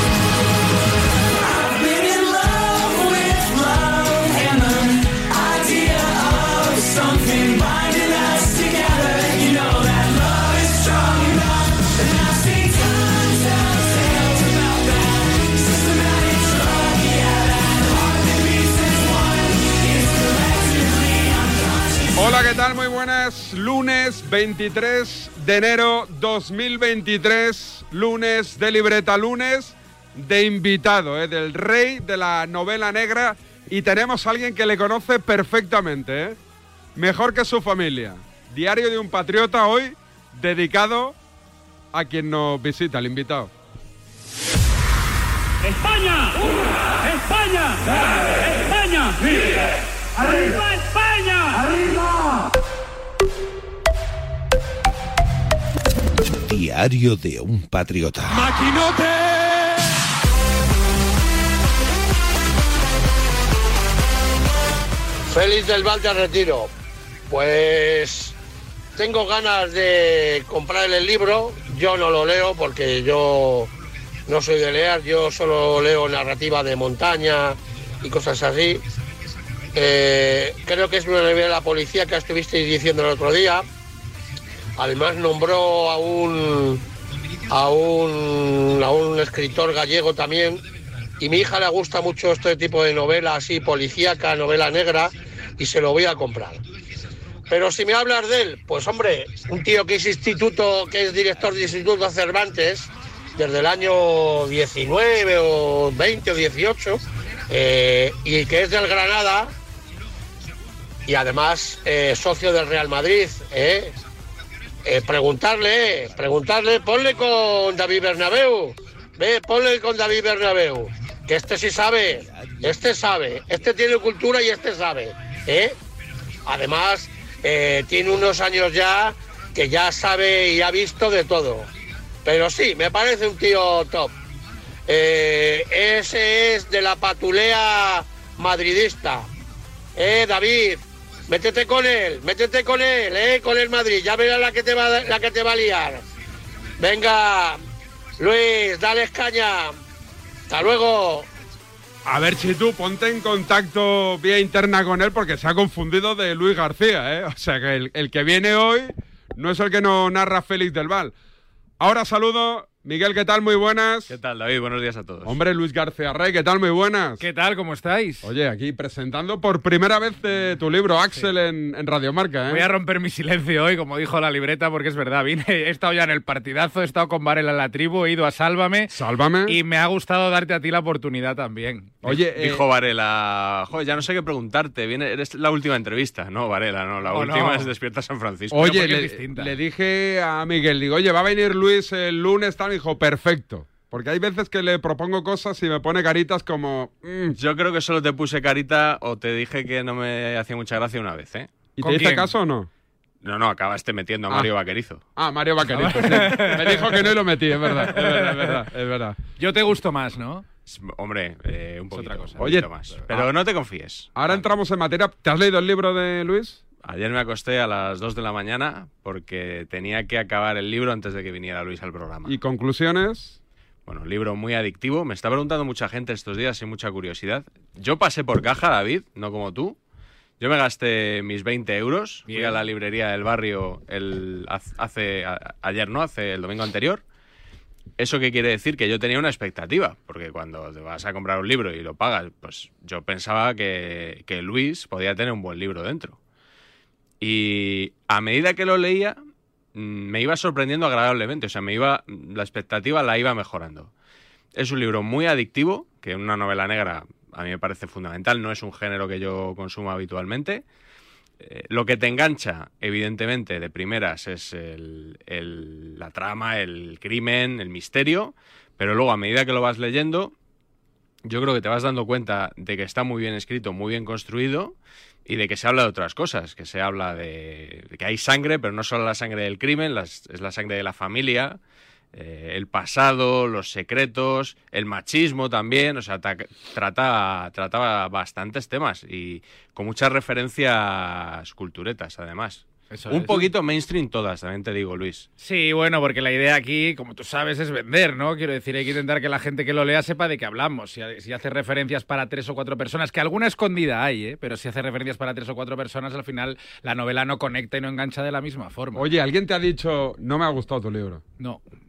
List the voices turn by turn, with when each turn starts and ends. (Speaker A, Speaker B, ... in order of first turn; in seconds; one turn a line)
Speaker A: 22.2-36.4
Speaker A: 37.0-41.2
Speaker A: 41.9-43.5
Speaker B: 45.6-52.1
Speaker C: 56.3-58.5
Speaker D: 65.3-66.7
Speaker D: 67.3-68.3
Speaker D: 69.0-73.7
Speaker D: 74.3-78.8
Speaker D: 79.7-83.7
Speaker D: 84.8-86.8
Speaker D: 87.5-90.6
Speaker D: 91.2-96.6
Speaker D: 97.5-109.5
Speaker D: 111.1-113.9
Speaker D: 114.8-125.8
Speaker D: 126.5-131.7
Speaker D: 132.2-134.1
Speaker D: 134.9-139.3
Speaker D: 140.0-146.0
Speaker D: 146.8-147.6
Speaker D: 148.2-149.8
Speaker D: 150.5-151.3
Speaker A: 152.1-161.1
Speaker A: 161.8-164.1
Speaker E: 164.1-165.4
Speaker A: 165.2-167.2
Speaker F: 167.2-168.3
Speaker A: 168.2-172.7
Speaker F: 171.1-171.4
Speaker F: 172.5-178.9
Speaker A: 178.9-179.6
Speaker F: 179.5-182.1
Speaker A: 182.0-182.6
Speaker E: 182.3-188.8
Speaker F: 187.1-187.7
Speaker A: 188.5-197.4
Speaker F: 188.6-189.6
Speaker E: 197.4-201.5
Speaker A: 201.8-202.7
Speaker F: 201.8-202.3
Speaker E: 203.2-205.0
Speaker A: 205.2-209.2
Speaker F: 205.7-207.2
Speaker F: 207.8-208.6
Speaker F: 209.4-210.4
Speaker E: 210.7-214.4
Speaker F: 211.9-213.2
Speaker A: 212.4-212.7
Speaker A: 214.2-216.6
Speaker E: 216.8-222.4
Speaker A: 222.3-223.4
Speaker E: 223.9-229.8
Speaker E: 230.4-237.0
Speaker F: 232.3-232.6
Speaker E: 238.0-246.2
Speaker E: 247.2-249.2
Speaker E: 249.8-253.9
Speaker E: 254.6-260.6
Speaker E: 261.4-270.3
Speaker E: 271.2-274.8
Speaker E: 275.3-281.6
Speaker E: 282.1-295.3
Speaker F: 292.9-293.5
Speaker F: 295.4-309.1
Speaker A: 308.9-311.2